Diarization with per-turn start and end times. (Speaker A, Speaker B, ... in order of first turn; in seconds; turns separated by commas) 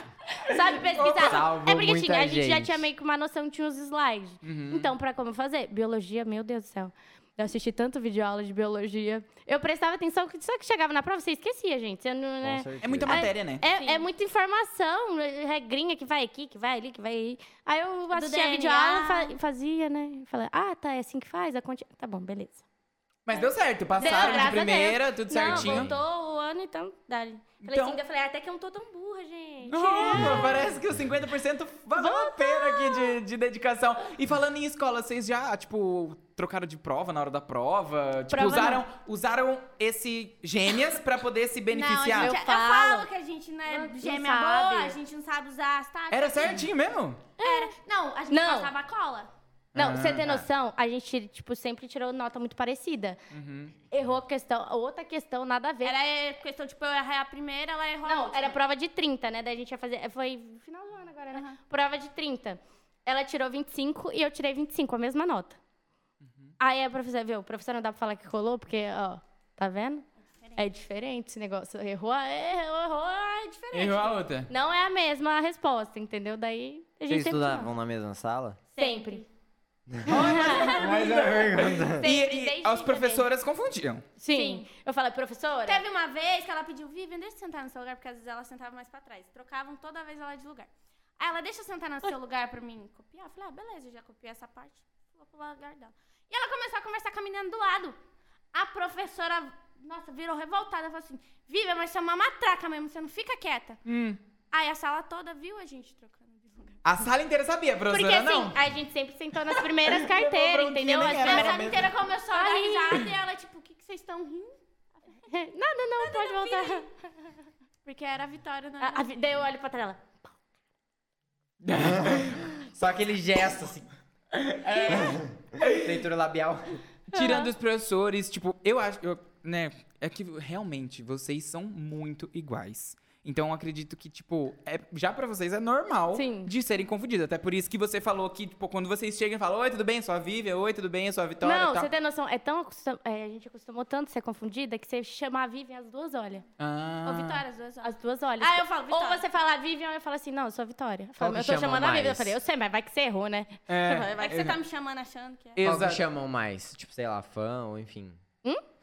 Speaker A: 0.3-22.6, Speaker B: 0.9-1.4, Speaker C: 1.1-2.9, Speaker B: 4.4-4.9, Speaker C: 12.4-13.3, Speaker B: 12.8-13.6, Speaker D: 13.6-14.1, Speaker D: 18.1-19.3, Speaker B: 23.2-25.9, Speaker A: 24.0-30.8, Speaker D: 24.0-24.7, Speaker C: 25.4-26.0, Speaker B: 27.6-28.0, Speaker B: 29.6-42.4, Speaker D: 30.0-30.4, Speaker A: 32.0-33.2, Speaker A: 38.3-38.8, Speaker D: 41.7-46.6, Speaker A: 42.2-43.1, Speaker A: 43.7-45.0, Speaker B: 46.1-47.2, Speaker A: 47.4-47.7, Speaker D: 47.4-49.3, Speaker A: 48.3-48.7, Speaker B: 49.7-50.5, Speaker A: 49.7-53.2, Speaker B: 53.3-53.7, Speaker A: 53.9-55.9, Speaker D: 55.8-58.6, Speaker A: 58.0-65.6, Speaker D: 61.3-61.6, Speaker B: 66.2-66.5, Speaker A: 66.6-70.0, Speaker D: 70.4-70.8, Speaker A: 70.6-77.7, Speaker B: 73.7-74.5, Speaker C: 77.1-78.6, Speaker D: 78.8-79.3, Speaker A: 78.8-79.2, Speaker C: 79.9-82.1, Speaker A: 80.0-83.3, Speaker B: 80.0-84.0, Speaker D: 80.3-81.0, Speaker A: 84.2-85.8, Speaker D: 84.3-84.7, Speaker D: 85.6-98.0, Speaker D: 98.5-103.8, Speaker B: 103.8-104.2, Speaker D: 104.5-106.8, Speaker B: 106.8-108.6, Speaker A: 107.9-113.1, Speaker B: 109.8-111.9, Speaker D: 111.0-114.5, Speaker A: 115.3-116.9, Speaker D: 116.0-116.8, Speaker D: 117.8-119.1, Speaker A: 118.8-120.2, Speaker B: 121.6-122.4, Speaker C: 122.0-123.9, Speaker B: 124.3-125.0, Speaker C: 124.5-126.8, Speaker B: 125.6-125.8, Speaker B: 127.1-141.9, Speaker A: 127.1-127.5, Speaker A: 136.1-136.5, Speaker A: 141.4-146.4, Speaker B: 146.6-147.4, Speaker D: 147.0-149.2, Speaker A: 147.8-154.2, Speaker C: 151.2-152.4, Speaker B: 153.7-154.6, Speaker D: 154.1-155.6, Speaker B: 155.6-156.0, Speaker C: 155.6-158.2